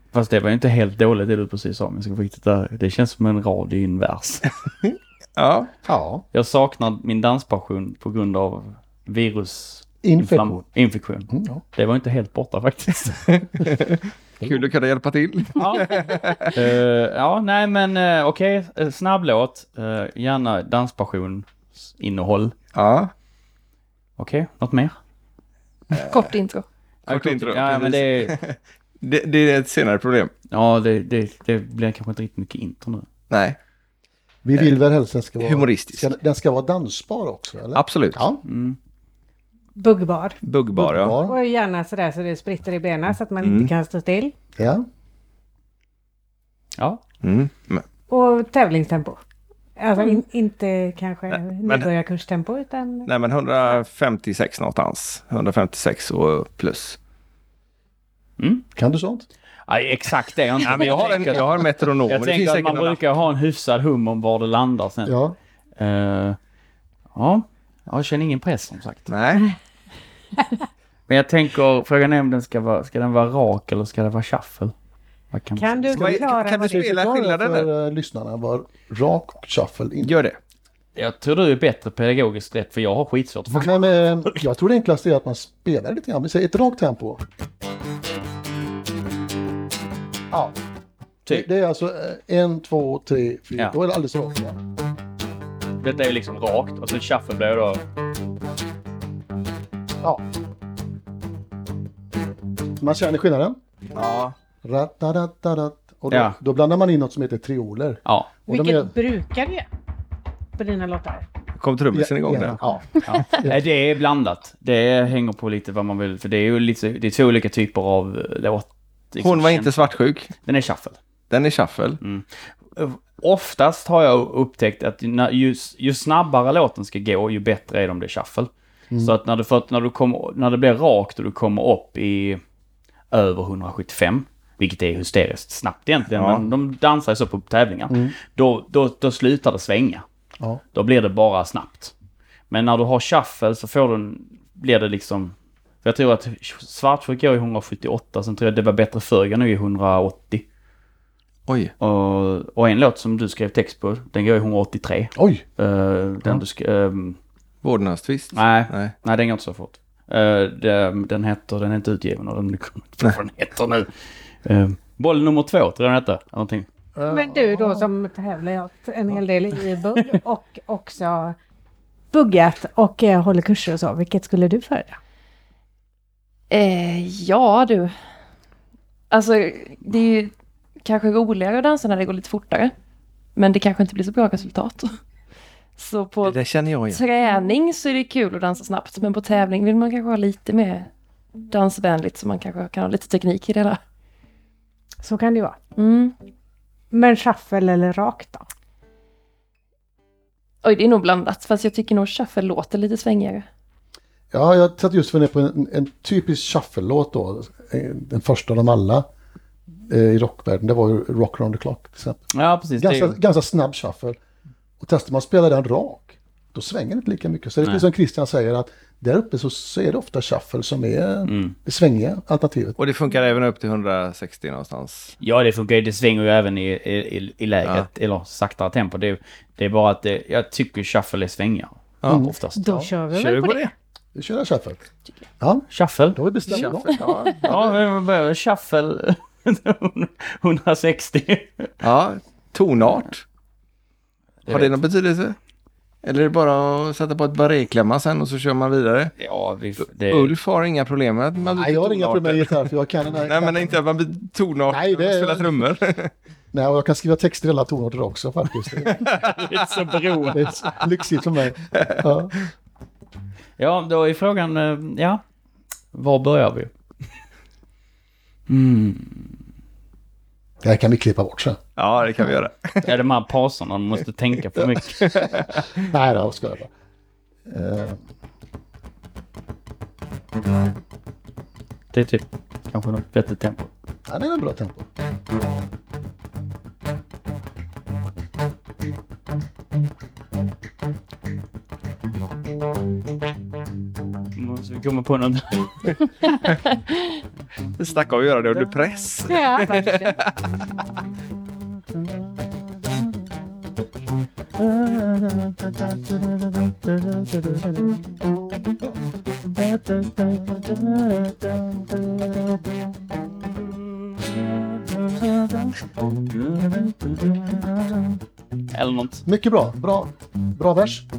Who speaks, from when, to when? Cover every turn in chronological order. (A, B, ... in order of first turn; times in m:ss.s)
0:00.1-0:04.5 A
0:05.4-0:05.7 B
0:05.8-0:06.2 C
0:06.3-0:13.4 A
0:10.0-0:10.6 C
0:11.3-0:11.6 C
0:13.6-0:16.5 B
0:15.6-0:22.6 A
0:22.7-0:23.1 B
0:24.2-0:24.9 A
0:25.9-0:26.3 B
0:25.9-0:26.6 D
0:27.0-0:28.3 A
0:27.1-0:30.3 B
0:30.5-0:33.0 A
0:33.3-0:33.6 B
0:34.4-0:38.4 C
0:35.4-0:36.1 B
0:37.7-0:38.2 B
0:38.4-0:38.8 A
0:39.8-0:40.4 E
0:40.4-0:41.2 B
0:40.7-0:41.4 C
0:41.2-0:44.3 E
0:43.4-0:43.7 B
0:44.6-0:44.8 C
0:47.2-0:47.8 B
0:48.1-0:49.2 E
0:49.8-0:53.1 E
0:53.0-0:57.0 B
0:58.4-0:58.6 A
0:58.8-0:59.2 C
0:59.7-1:01.5 A
1:00.6-1:03.0 B
1:02.1-1:05.2 A
1:05.0-1:05.4 C
1:05.8-1:06.4 A
1:07.1-1:09.1 A
1:09.1-1:09.5 B
1:11.1-1:14.7 A
1:15.3-1:16.0 A
1:15.6-1:16.8 E
1:15.9-1:17.7 B
1:16.0-1:20.2 C
1:20.0-1:20.4 B
1:21.0-1:24.3 A
1:23.5-1:27.2 C
1:31.3-1:34.6 C
1:35.8-1:37.8 A
1:42.8-1:43.6 C
1:43.9-1:44.3 B
1:44.6-1:48.9 C
1:46.1-1:46.4 A
1:48.0-1:48.3 A
1:48.5-1:49.6 E
1:50.6-1:51.2 E
1:51.6-1:52.6 B
1:51.9-1:53.6 C
1:53.0-1:59.9 A
1:59.2-2:00.3 B
2:00.4-2:01.0 A
2:01.3-2:02.0 B
2:02.0-2:12.4 A
2:13.1-2:20.0 A
2:16.1-2:16.4 B
2:17.9-2:18.1 C
2:20.7-2:21.9 A
2:22.5-2:30.4 A
2:31.5-2:31.7 B
2:31.8-2:37.2 A
2:35.1-2:35.4 C
2:37.6-2:38.9 B
2:38.3-2:43.9 A
2:44.4-2:46.7 A
2:47.0-2:47.9 C
2:47.1-2:51.3 E
2:52.1-2:55.0 E
2:56.5-2:57.9 D
2:59.1-3:02.7 D
3:03.4-3:05.0 D
3:05.8-3:06.4 D
3:06.2-3:07.0 B
3:06.9-3:10.9 D
3:11.5-3:13.8 D
3:15.0-3:15.6 E
3:15.8-3:16.1 D
3:16.9-3:18.4 E
3:20.6-3:23.4 D
3:24.3-3:29.0 C
3:29.9-3:34.2 C
3:32.3-3:33.2 A
3:34.8-3:42.8 C
3:41.2-3:41.5 A
3:42.8-3:45.2 B
3:45.2-3:52.6 A
3:52.0-3:52.9 C
3:52.6-3:53.7 E
3:53.1-3:53.7 B
3:54.1-3:54.8 C
3:55.4-3:57.4 C
3:55.7-3:56.2 A
3:56.5-3:57.7 B
3:57.0-3:57.3 D
3:57.4-4:01.7 A
4:01.8-4:03.2 B
4:04.4-4:04.8 A
4:04.5-4:05.4 B
4:06.0-4:09.1 B
4:09.2-4:10.3 A
4:10.1-4:12.6 B
4:11.5-4:13.7 C
4:13.3-4:16.1 B
4:14.7-4:15.6 C
4:16.5-4:19.0 C
4:19.0-4:20.7 A
4:20.3-4:22.3 C
4:23.6-4:25.2 A
4:25.9-4:26.7 A
4:28.5-4:29.3 A
4:30.6-4:31.6 C
4:31.8-4:32.9 B
4:32.8-4:35.3 A
4:35.0-4:35.4 B
4:35.7-4:36.7 C
4:37.5-4:38.0 C
4:41.9-4:43.7 A
4:44.1-4:44.8 C
4:54.4-4:56.4 A
4:57.8-5:00.4 B
4:59.3-5:00.2 E
5:01.9-5:02.3 A
5:04.6-5:08.2 A
5:09.5-5:12.7 A
5:13.4-5:18.2 A
5:18.7-5:19.2 A
5:19.2-5:21.1 C